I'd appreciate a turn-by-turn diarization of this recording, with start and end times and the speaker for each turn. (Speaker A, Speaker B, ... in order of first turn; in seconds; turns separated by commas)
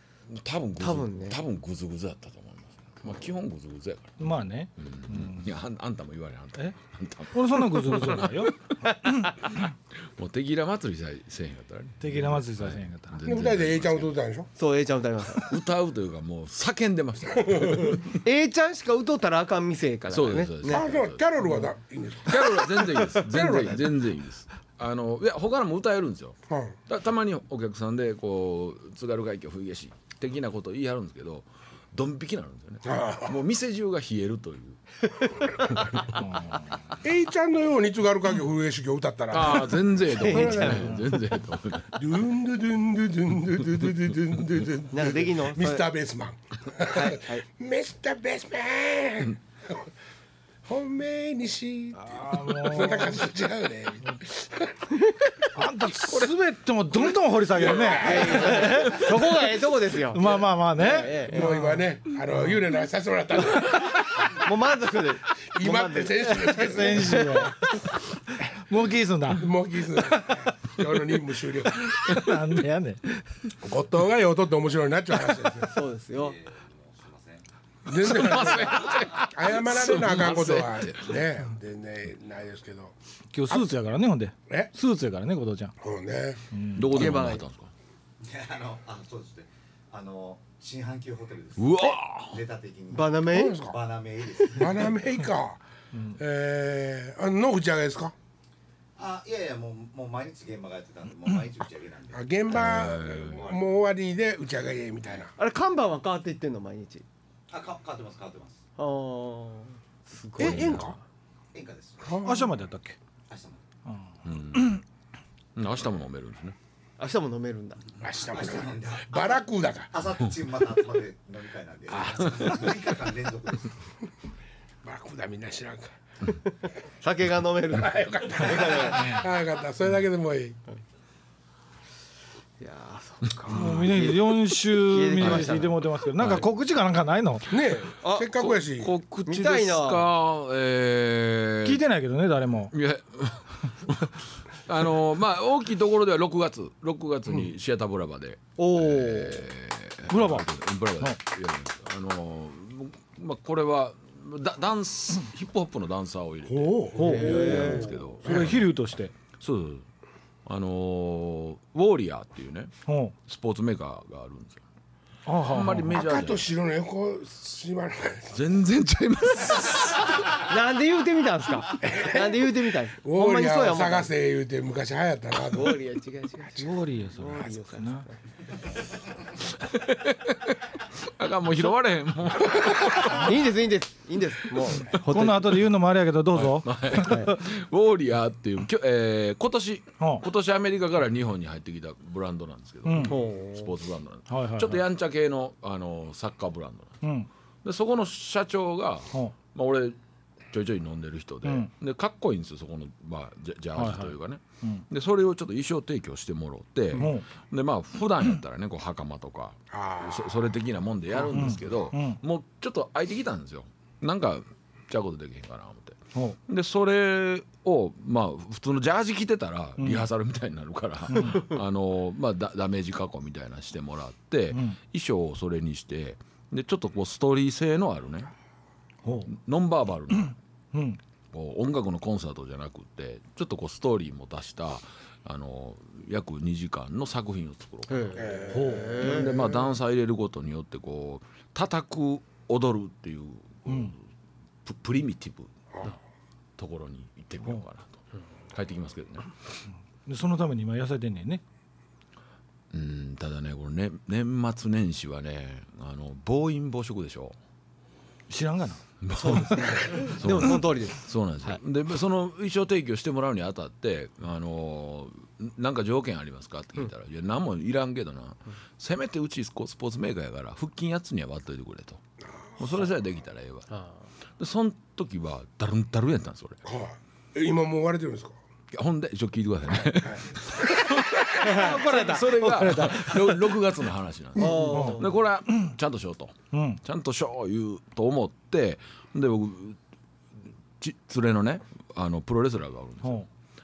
Speaker A: 0.3-8.7, Speaker B: 0.8-1.4, Speaker C: 4.2-5.5, Speaker C: 7.3-9.3, Speaker B: 8.8-9.3, Speaker A: 9.5-14.1, Speaker C: 12.0-13.2, Speaker D: 13.2-14.5, Speaker B: 14.6-15.5, Speaker A: 15.3-18.2, Speaker D: 17.4-17.9, Speaker B: 18.1-20.9, Speaker A: 20.1-21.2, Speaker D: 20.6-23.9, Speaker A: 22.2-36.2, Speaker D: 26.5-26.8, Speaker D: 32.8-33.4, Speaker C: 36.1-36.8, Speaker D: 37.0-41.0, Speaker A: 39.3-42.0, Speaker B: 40.1-41.0, Speaker D: 41.9-49.9, Speaker B: 44.9-45.8, Speaker B: 46.8-47.4, Speaker D: 50.6-55.0, Speaker C: 52.0-53.2, Speaker C: 55.5-59.2, Speaker D: 57.5-58.9, Speaker B: 57.8-61.6, Speaker C: 60.1-61.8, Speaker D: 60.8-64.4, Speaker B: 64.3-68.0, Speaker D: 65.3-67.5, Speaker C: 66.5-67.7, Speaker C: 68.5-69.5, Speaker D: 69.3-72.0, Speaker C: 70.1-70.5, Speaker C: 71.9-73.1, Speaker D: 73.6-75.7, Speaker B: 75.6-76.4, Speaker E: 76.1-77.4, Speaker D: 77.8-82.9, Speaker A: 77.9-81.1, Speaker C: 83.3-85.7, Speaker D: 85.8-86.4, Speaker C: 86.5-87.1, Speaker A: 86.8-87.7, Speaker B: 86.9-87.4, Speaker E: 88.2-94.9, Speaker A: 91.6-92.4, Speaker B: 92.9-93.6, Speaker D: 93.3-93.8, Speaker D: 94.5-98.1, Speaker E: 99.0-103.1, Speaker D: 102.1-105.3, Speaker A: 102.5-103.5, Speaker B: 105.4-107.0, Speaker E: 107.5-108.6, Speaker B: 108.8-111.0, Speaker D: 110.4-111.0, Speaker A: 110.4-110.7, Speaker E: 111.5-112.2, Speaker D: 112.0-112.5, Speaker C: 112.2-113.0, Speaker E: 113.3-113.6, Speaker C: 113.9-114.8, Speaker A: 114.2-114.8, Speaker A: 115.5-116.5, Speaker B: 117.0-117.8, Speaker D: 118.0-119.9, Speaker E: 118.3-119.3, Speaker E: 119.9-123.7, Speaker D: 121.9-122.7, Speaker D: 124.8-126.0, Speaker B: 126.3-129.1, Speaker D: 127.7-130.6, Speaker E: 128.3-129.2, Speaker B: 132.6-135.8, Speaker C: 133.5-137.5, Speaker A: 133.5-133.9, Speaker A: 135.2-135.5, Speaker A: 136.2-136.4, Speaker D: 137.5-138.9, Speaker B: 138.0-138.4, Speaker A: 138.4-141.8, Speaker B: 139.2-140.1, Speaker C: 141.6-142.7, Speaker A: 142.7-158.7, Speaker B: 148.6-149.4, Speaker C: 150.1-150.5, Speaker D: 156.5-158.6, Speaker B: 156.9-157.9, Speaker C: 156.9-159.1, Speaker A: 159.3-159.8, Speaker A: 160.4-162.7, Speaker C: 162.9-163.1, Speaker A: 163.3-164.6, Speaker C: 165.2-165.9, Speaker A: 165.4-166.5, Speaker D: 165.9-168.4, Speaker A: 168.3-170.2, Speaker B: 170.3-174.1, Speaker D: 171.8-172.5, Speaker D: 173.0-175.8, Speaker B: 175.5-178.2, Speaker C: 176.6-178.1, Speaker A: 179.5-183.3, Speaker B: 183.0-185.6, Speaker C: 184.9-187.4, Speaker A: 186.3-197.0, Speaker B: 187.0-187.3, Speaker C: 192.8-193.2, Speaker B: 193.0-193.7, Speaker C: 194.3-194.8, Speaker C: 197.0-197.3, Speaker A: 197.6-199.9, Speaker A: 200.5-228.3, Speaker C: 201.4-201.7, Speaker C: 203.8-204.8, Speaker C: 206.9-207.2, Speaker D: 209.7-210.4, Speaker C: 211.3-212.2, Speaker C: 219.8-220.1, Speaker C: 221.1-221.5, Speaker C: 224.5-224.8, Speaker C: 229.0-229.3, Speaker A: 229.3-230.3, Speaker C: 230.1-231.0, Speaker A: 231.3-238.4, Speaker B: 237.9-239.4, Speaker D: 238.2-239.6, Speaker C: 238.5-239.0, Speaker A: 239.0-244.0, Speaker C: 243.7-243.9, Speaker A: 244.6-245.5, Speaker A: 246.6-249.3, Speaker C: 250.1-251.4, Speaker A: 252.7-257.4, Speaker C: 258.3-259.8, Speaker A: 259.0-272.0, Speaker B: 259.1-261.6, Speaker D: 272.2-272.9, Speaker A: 272.6-273.7, Speaker B: 273.7-274.0, Speaker A: 274.4-276.6, Speaker D: 276.6-278.4, Speaker A: 278.7-289.8, Speaker D: 279.7-281.3, Speaker B: 281.4-282.0, Speaker C: 281.4-283.5, Speaker B: 284.4-285.1, Speaker C: 284.4-285.7, Speaker C: 286.5-286.8, Speaker A: 290.8-293.2